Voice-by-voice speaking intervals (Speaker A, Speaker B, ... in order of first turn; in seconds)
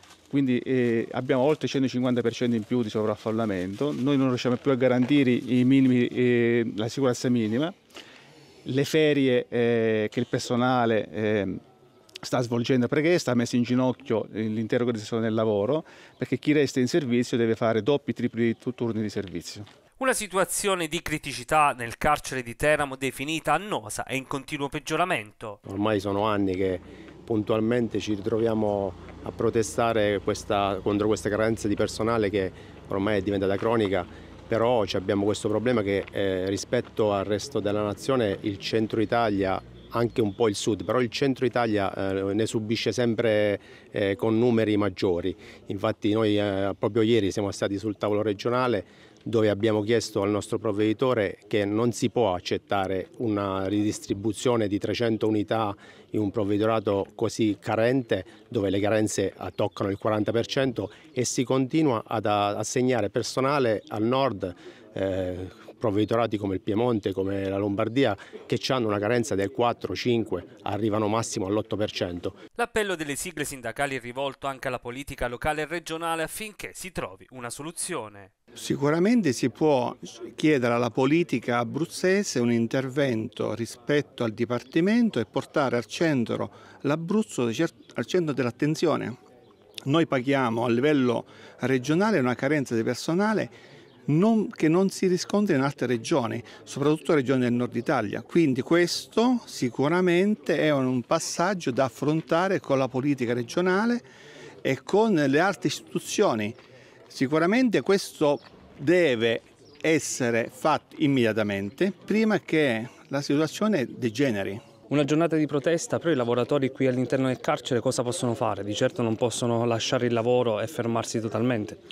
Speaker A: 0.3-7.8, 8.7-11.6, 12.2-19.7
Speaker B: 20.0-25.6, 72.6-78.3
Speaker C: 25.7-72.4
Speaker D: 78.6-89.2, 89.8-93.6, 94.1-104.1, 104.6-106.6, 107.1-114.7
Speaker E: 114.9-121.8